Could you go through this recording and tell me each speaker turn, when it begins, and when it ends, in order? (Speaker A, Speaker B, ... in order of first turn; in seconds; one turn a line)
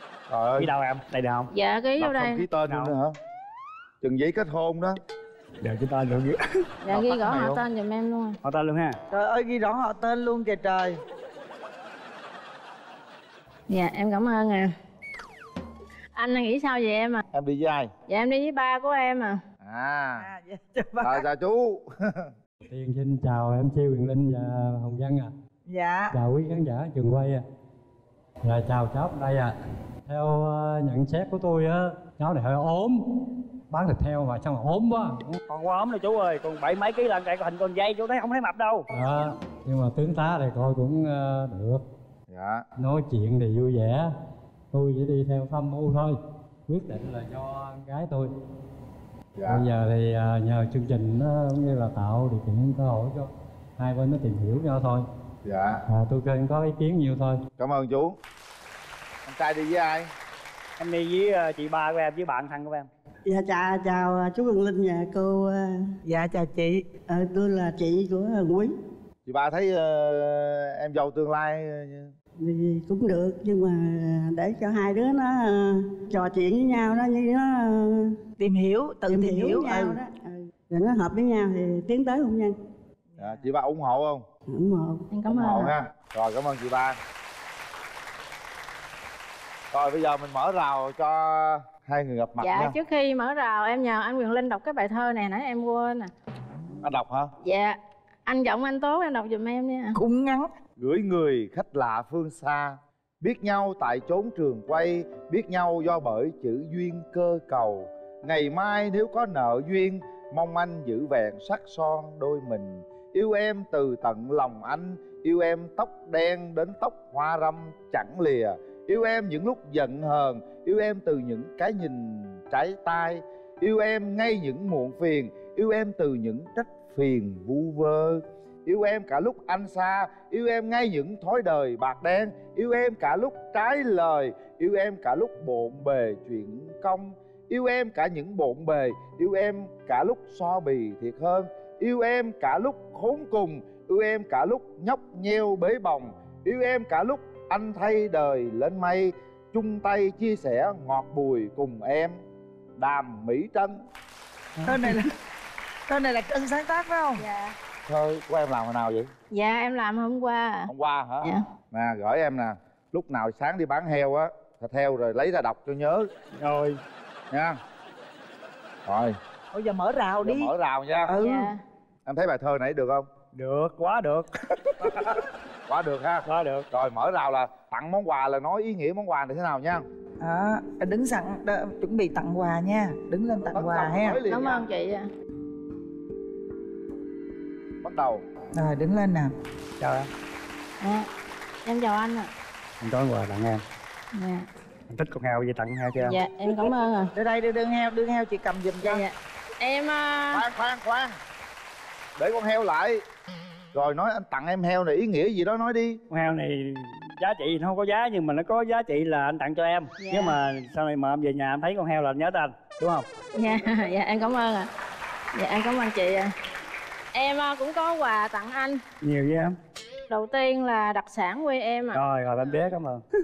Speaker A: 0.3-0.7
Speaker B: 0.6-1.5
Speaker C: 1.5-2.4
Speaker A: 2.0-3.1
Speaker B: 2.7-2.9
Speaker A: 4.0-5.0
Speaker B: 5.6-6.4
Speaker C: 6.8-8.4
Speaker A: 6.9-7.6
Speaker B: 8.4-9.0
Speaker D: 9.1-11.0
Speaker C: 13.7-14.7
Speaker C: 16.1-17.2
Speaker A: 17.3-17.9
Speaker C: 18.1-19.4
Speaker A: 19.6-20.3
Speaker D: 20.2-21.2
Speaker A: 21.0-22.3
Speaker E: 22.7-25.3
Speaker D: 25.7-26.1
Speaker E: 26.1-27.4
Speaker E: 28.4-29.5
Speaker E: 30.1-33.0
Speaker E: 33.7-35.4
Speaker B: 35.5-38.9
Speaker E: 38.9-41.8
Speaker A: 42.3-42.6
Speaker E: 42.8-44.1
Speaker E: 44.7-46.1
Speaker E: 46.7-48.3
Speaker A: 49.4-49.7
Speaker E: 49.5-55.0
Speaker A: 55.5-55.8
Speaker E: 55.9-57.4
Speaker A: 57.6-58.2
Speaker A: 59.3-60.1
Speaker B: 60.8-62.9
Speaker F: 63.3-65.8
Speaker D: 66.1-66.9
Speaker F: 67.1-68.7
Speaker A: 69.3-72.1
Speaker F: 72.4-78.1
Speaker D: 78.4-80.0
Speaker F: 79.1-82.5
Speaker D: 83.1-83.4
Speaker A: 83.2-84.2
Speaker F: 84.5-85.1
Speaker C: 85.1-85.7
Speaker A: 85.3-87.0
Speaker A: 89.7-92.8
Speaker C: 92.4-96.1
Speaker A: 96.8-97.3
Speaker C: 97.4-100.0
Speaker D: 100.0-100.5
Speaker A: 100.8-152.2
Speaker A: 152.8-153.7
Speaker D: 154.7-155.1
Speaker D: 155.9-157.2
Speaker C: 157.2-157.5
Speaker A: 157.9-159.1
Speaker C: 159.3-160.7
Speaker A: 160.7-166.1
Speaker B: 166.4-166.8
Speaker A: 168.9-169.2
Speaker D: 169.5-170.5
Speaker A: 170.2-171.1
Speaker D: 171.1-171.5
Speaker C: 171.2-171.6
Speaker A: 172.1-173.1
Speaker B: 173.3-175.1
Speaker A: 175.7-179.8
Speaker B: 176.2-176.7
Speaker D: 180.2-184.2
Speaker A: 183.5-184.7
Speaker C: 184.3-185.1
Speaker A: 187.8-188.2
Speaker D: 188.5-189.3
Speaker B: 189.8-190.1
Speaker C: 190.8-191.1
Speaker C: 191.6-192.3
Speaker B: 192.8-193.6
Speaker C: 194.1-194.5
Speaker B: 194.9-196.2
Speaker C: 196.0-197.1
Speaker D: 197.2-199.0
Speaker C: 198.8-200.4
Speaker A: 200.3-201.2
Speaker A: 202.2-203.0
Speaker A: 203.7-206.0
Speaker B: 206.1-213.1
Speaker C: 210.0-210.4
Speaker C: 213.4-214.7
Speaker C: 215.3-216.3
Speaker C: 217.1-218.8
Speaker B: 219.0-219.5
Speaker C: 220.1-222.0
Speaker B: 221.9-223.1